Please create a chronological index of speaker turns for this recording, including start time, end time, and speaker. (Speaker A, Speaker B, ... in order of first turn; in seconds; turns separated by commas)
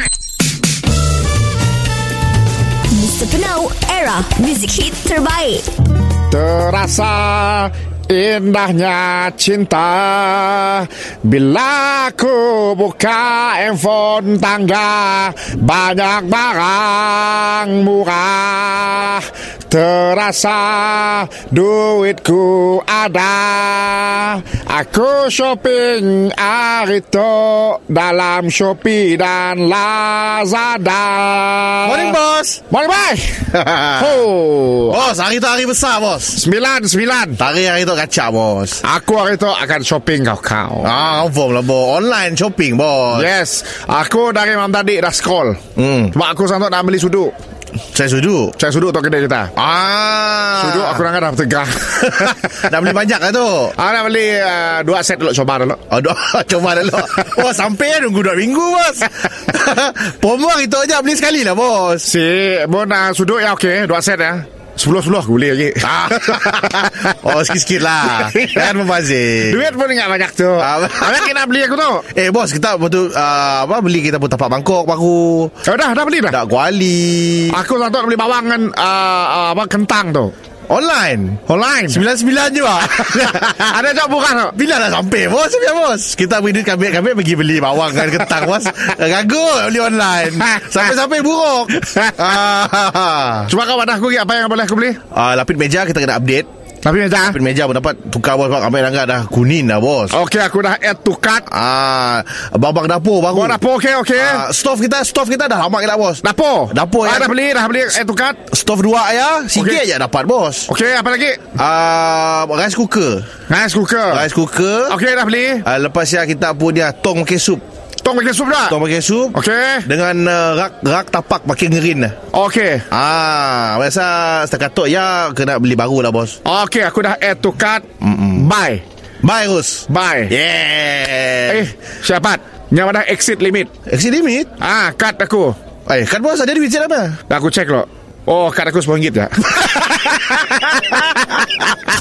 Speaker A: 2.9-5.7, Speaker B: 6.3-32.2, Speaker C: 31.8-32.6, Speaker B: 32.7-35.0, Speaker C: 33.5-34.1, Speaker C: 34.9-36.4, Speaker B: 36.3-37.4, Speaker C: 37.4-38.8, Speaker B: 38.8-40.9, Speaker C: 40.8-43.3, Speaker B: 43.1-45.6, Speaker C: 45.8-46.1, Speaker B: 46.1-47.3, Speaker C: 47.9-48.5, Speaker B: 48.6-49.5, Speaker C: 49.5-51.0, Speaker B: 50.6-52.5, Speaker C: 52.1-53.7, Speaker B: 53.8-55.8, Speaker C: 55.9-62.1, Speaker B: 62.0-67.3, Speaker C: 65.8-69.7, Speaker B: 68.0-68.7, Speaker B: 69.5-72.0, Speaker C: 70.6-71.3, Speaker C: 72.1-75.6, Speaker B: 75.7-76.4, Speaker C: 76.3-77.6, Speaker B: 77.5-80.3, Speaker C: 80.7-83.8, Speaker B: 81.5-82.0, Speaker B: 82.9-84.5, Speaker C: 84.5-93.5, Speaker B: 91.8-92.2, Speaker B: 93.5-95.0, Speaker C: 95.1-96.5, Speaker B: 96.8-97.4, Speaker C: 97.3-100.2, Speaker B: 100.1-101.5, Speaker C: 101.5-103.6, Speaker B: 103.3-104.4, Speaker C: 104.2-107.3, Speaker B: 106.2-108.4, Speaker C: 108.5-110.7, Speaker B: 109.5-109.8, Speaker B: 110.7-111.5, Speaker C: 111.5-113.3, Speaker B: 113.5-114.3, Speaker C: 114.1-115.0, Speaker B: 114.9-115.6, Speaker C: 115.6-117.6, Speaker B: 118.0-118.8, Speaker C: 118.7-122.2, Speaker B: 119.3-119.8, Speaker B: 122.3-122.8, Speaker C: 122.9-126.4, Speaker B: 126.4-128.8, Speaker C: 128.0-128.4, Speaker C: 129.2-131.6, Speaker B: 129.9-130.3, Speaker B: 131.5-133.7, Speaker C: 133.9-134.6, Speaker B: 134.6-135.6, Speaker C: 135.8-137.2, Speaker B: 137.3-141.0